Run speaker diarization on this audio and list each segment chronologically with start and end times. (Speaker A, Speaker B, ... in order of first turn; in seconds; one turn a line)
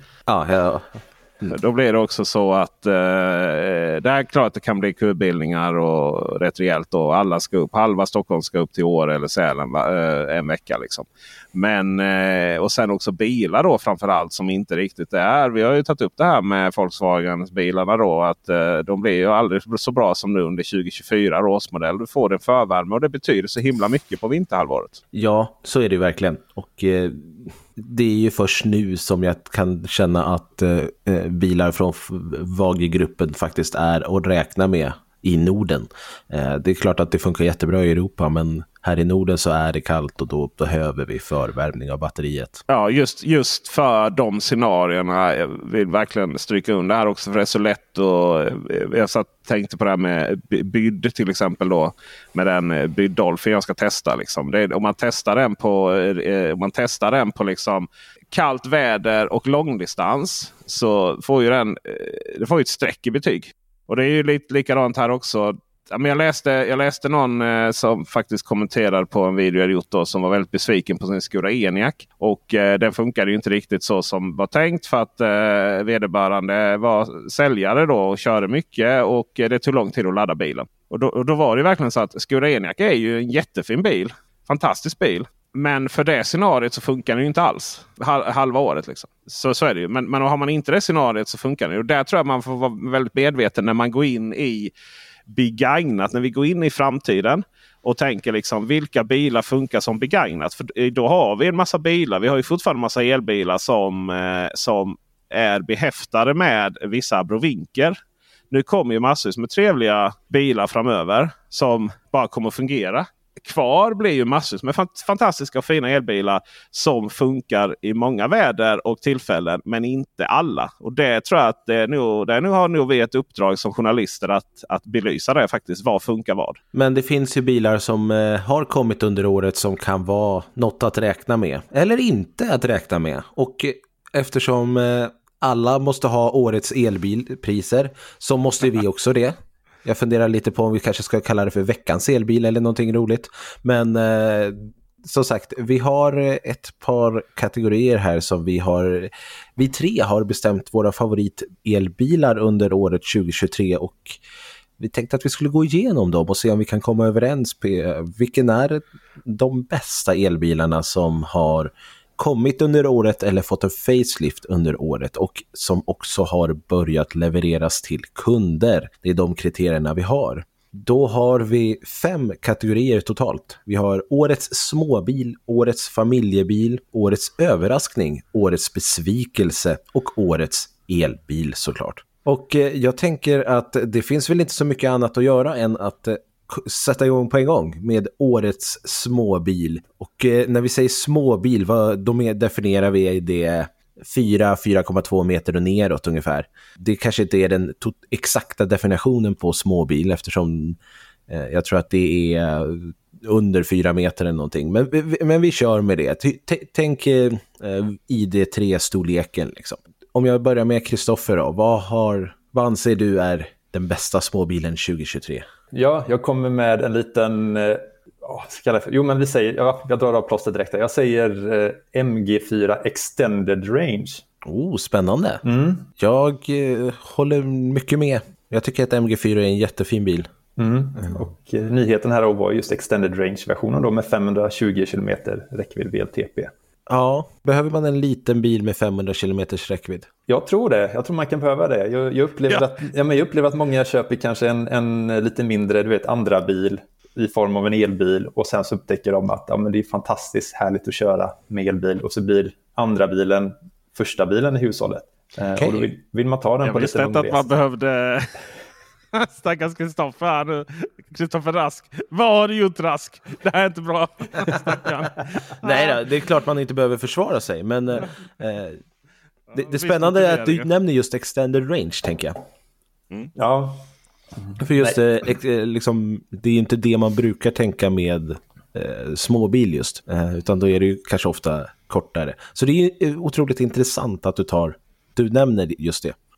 Speaker A: 0.3-1.5
Speaker B: 1.5-25.0
Speaker A: 25.1-42.6
Speaker B: 42.7-94.7
Speaker B: 95.3-108.0
Speaker B: 108.5-126.6
Speaker A: 126.7-154.2
Speaker A: 154.8-200.8
Speaker A: 201.3-215.4
Speaker C: 215.7-224.2
Speaker A: 224.4-225.4
Speaker C: 225.4-225.9
Speaker A: 226.0-230.3
Speaker C: 230.6-236.5
Speaker A: 236.9-240.1
Speaker C: 240.3-257.4
Speaker A: 255.6-255.9
Speaker B: 256.6-258.5
Speaker B: 259.1-266.0
Speaker A: 265.6-268.8
Speaker B: 269.5-270.7
Speaker A: 269.5-272.4
Speaker C: 273.4-273.9
Speaker C: 274.4-275.0
Speaker A: 274.6-286.2